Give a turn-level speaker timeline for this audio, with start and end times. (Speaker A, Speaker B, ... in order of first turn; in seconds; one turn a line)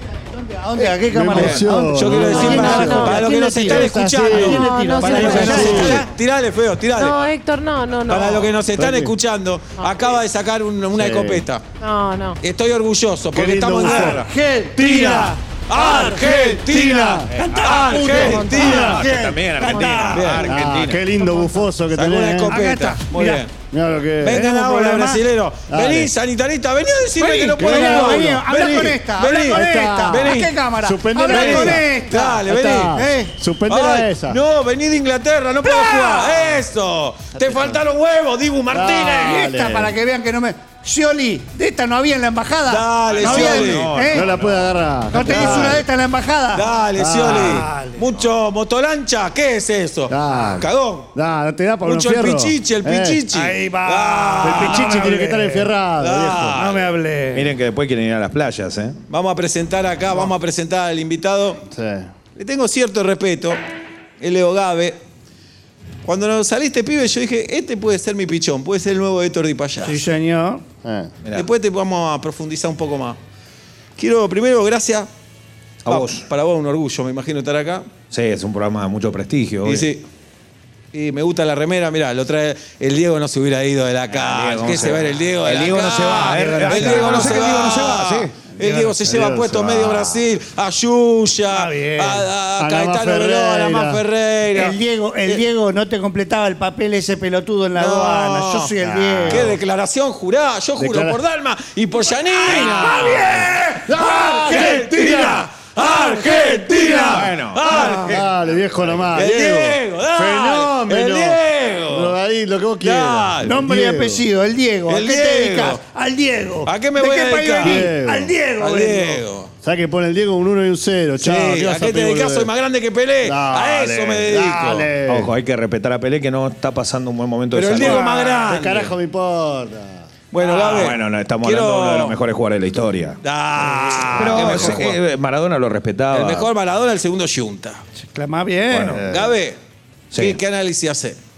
Speaker A: 0.1-6.1
Speaker B: 0.8-6.0
Speaker C: 1.3-7.2
Speaker D: 2.3-3.6
Speaker D: 4.3-5.9
Speaker D: 7.0-8.6
Speaker C: 8.1-11.7
Speaker B: 8.8-9.1
Speaker B: 10.9-11.4
Speaker D: 11.8-12.4
Speaker C: 12.4-14.3
Speaker B: 13.3-14.2
Speaker A: 13.8-16.3
Speaker B: 14.8-17.3
Speaker C: 14.8-19.0
Speaker A: 17.3-20.5
Speaker B: 17.9-19.2
Speaker D: 18.0-19.0
Speaker E: 18.5-21.0
Speaker D: 19.6-20.4
Speaker C: 20.1-20.5
Speaker B: 20.4-22.5
Speaker A: 21.2-21.7
Speaker C: 21.9-23.5
Speaker A: 22.5-23.5
Speaker B: 23.7-24.4
Speaker C: 24.2-30.6
Speaker A: 24.2-25.2
Speaker B: 25.7-26.1
Speaker A: 27.2-32.4
Speaker B: 27.6-34.4
Speaker C: 31.3-33.0
Speaker A: 32.9-33.4
Speaker C: 33.7-39.5
Speaker A: 35.6-36.6
Speaker B: 37.4-37.8
Speaker B: 38.7-39.9
Speaker A: 39.2-44.3
Speaker C: 42.7-43.9
Speaker E: 43.1-44.7
Speaker B: 44.1-45.8
Speaker A: 45.1-46.7
Speaker C: 45.3-45.7
Speaker C: 46.5-51.1
Speaker B: 47.0-47.7
Speaker A: 47.3-48.0
Speaker B: 50.1-53.2
Speaker C: 51.8-55.1
Speaker A: 53.3-55.7
Speaker B: 54.4-56.6
Speaker C: 56.0-56.9
Speaker A: 56.6-57.5
Speaker E: 57.3-59.0
Speaker C: 59.1-61.6
Speaker B: 61.7-62.1
Speaker C: 62.4-63.6
Speaker C: 64.2-65.0
Speaker C: 66.0-70.0
Speaker A: 69.8-70.6
Speaker B: 70.8-71.1
Speaker E: 71.2-71.5
Speaker C: 71.3-73.2
Speaker C: 74.0-75.1
Speaker E: 75.8-76.3
Speaker C: 75.9-77.9
Speaker E: 78.1-79.9
Speaker C: 79.6-80.0
Speaker C: 80.9-94.8
Speaker E: 84.1-88.3
Speaker A: 86.1-87.5
Speaker A: 88.6-88.9
Speaker B: 89.0-90.2
Speaker A: 91.5-92.3
Speaker B: 92.6-94.0
Speaker A: 94.5-99.5
Speaker C: 97.8-98.7
Speaker B: 98.8-99.6
Speaker C: 99.3-103.4
Speaker B: 100.8-101.2
Speaker B: 102.4-105.4
Speaker A: 102.4-105.4
Speaker C: 104.0-108.3
Speaker A: 106.3-108.2
Speaker E: 107.0-107.7
Speaker B: 107.7-114.2
Speaker C: 109.1-112.2
Speaker C: 112.8-113.5
Speaker A: 113.4-119.2
Speaker C: 114.9-115.8
Speaker C: 116.7-117.9
Speaker B: 117.6-118.3
Speaker C: 118.6-119.5
Speaker B: 119.6-122.5
Speaker C: 121.2-124.9
Speaker B: 123.2-125.3
Speaker E: 125.1-128.1
Speaker C: 127.5-128.9
Speaker B: 127.8-130.1
Speaker C: 130.3-132.2
Speaker E: 130.6-133.2
Speaker C: 133.2-135.0
Speaker A: 133.7-134.1
Speaker E: 134.1-136.5
Speaker C: 136.1-137.8
Speaker A: 138.0-139.0
Speaker E: 138.7-139.0
Speaker B: 138.9-139.3
Speaker C: 139.1-139.6
Speaker E: 140.1-140.4
Speaker C: 140.2-141.2